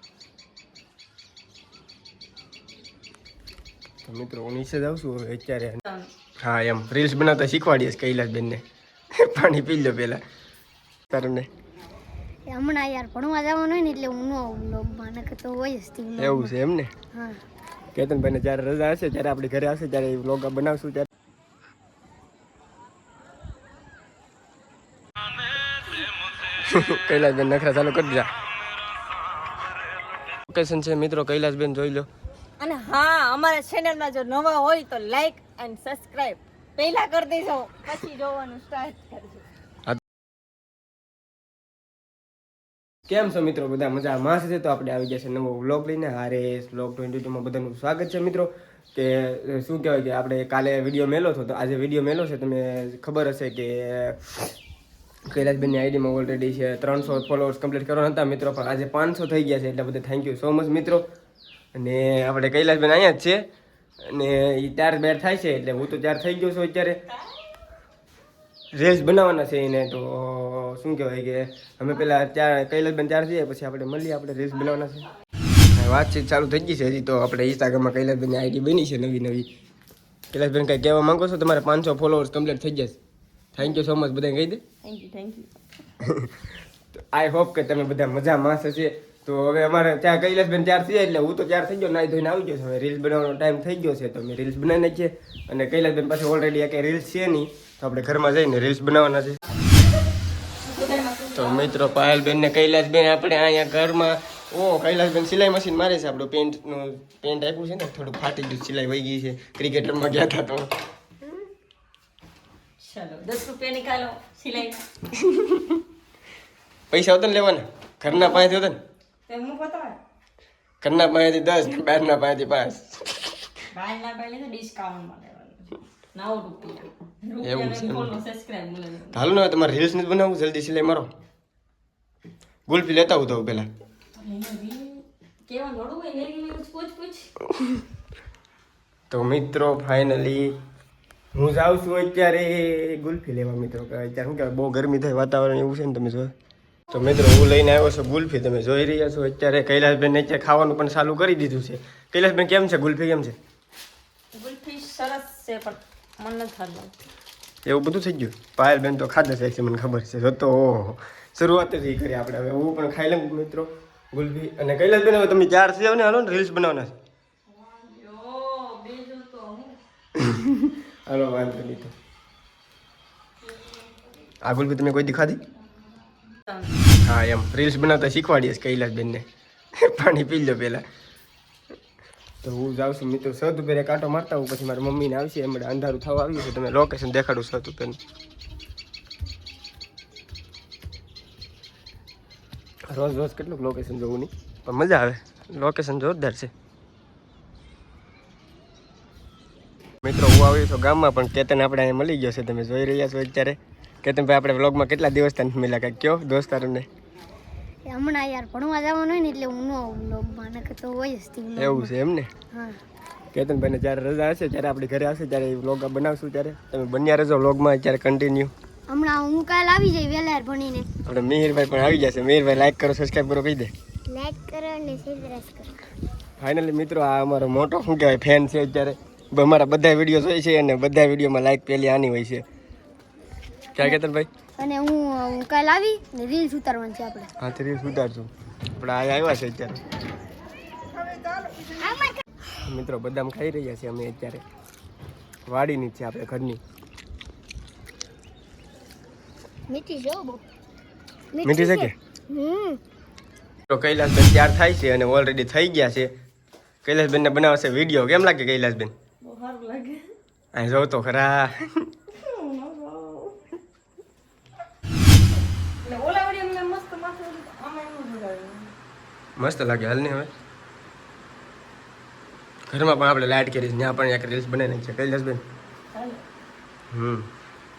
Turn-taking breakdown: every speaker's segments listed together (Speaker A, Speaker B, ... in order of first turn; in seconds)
Speaker A: 4.0-5.8, 6.4-10.2, 11.1-11.5, 16.2-16.9, 17.9-21.1, 26.6-28.3, 30.5-32.1, 43.1-54.5, 55.2-61.0, 61.7-63.4, 64.0-67.0, 68.7-75.0, 75.7-79.5, 80.3-83.0, 83.5-84.6, 86.0-86.3, 86.9-99.4, 101.3-110.7, 115.2-115.8, 116.9-118.8, 120.8-123.1, 127.4-128.1, 129.1-131.1, 132.7-133.7, 139.1-140.6, 141.3-146.3, 146.9-153.4, 157.6-166.9, 170.1-171.9, 174.4-175.4, 177.0-180.8, 182.4-188.0, 192.9-196.5, 200.0-206.9, 211.6-212.3, 213.3-218.5, 221.1-223.7, 226.4-232.4, 233.7-234.3, 237.4-239.8, 242.6-244.4, 245.4-246.6, 251.4-251.9, 253.7-256.1, 256.8-258.9, 260.5-261.9, 269.4-270.3, 272.7-275.4, 276.9-277.3
Speaker B: 5.8-6.1, 32.6-39.5, 84.8-85.5, 100.6-101.9, 112.8-114.9, 118.1-118.5, 119.3-120.0, 123.7-129.2, 134.1-137.3, 154.3-156.9, 167.5-169.8, 173.5-173.9, 176.3-176.7, 259.2-260.1, 262.1-263.4, 265.8-268.7, 275.9-276.2
Speaker C: 12.5-16.5, 17.1-17.4, 207.9-211.9, 212.5-212.8, 218.9-220.9, 224.1-225.7, 234.6-237.3, 241.7-242.1, 249.7-250.4, 251.3-252.8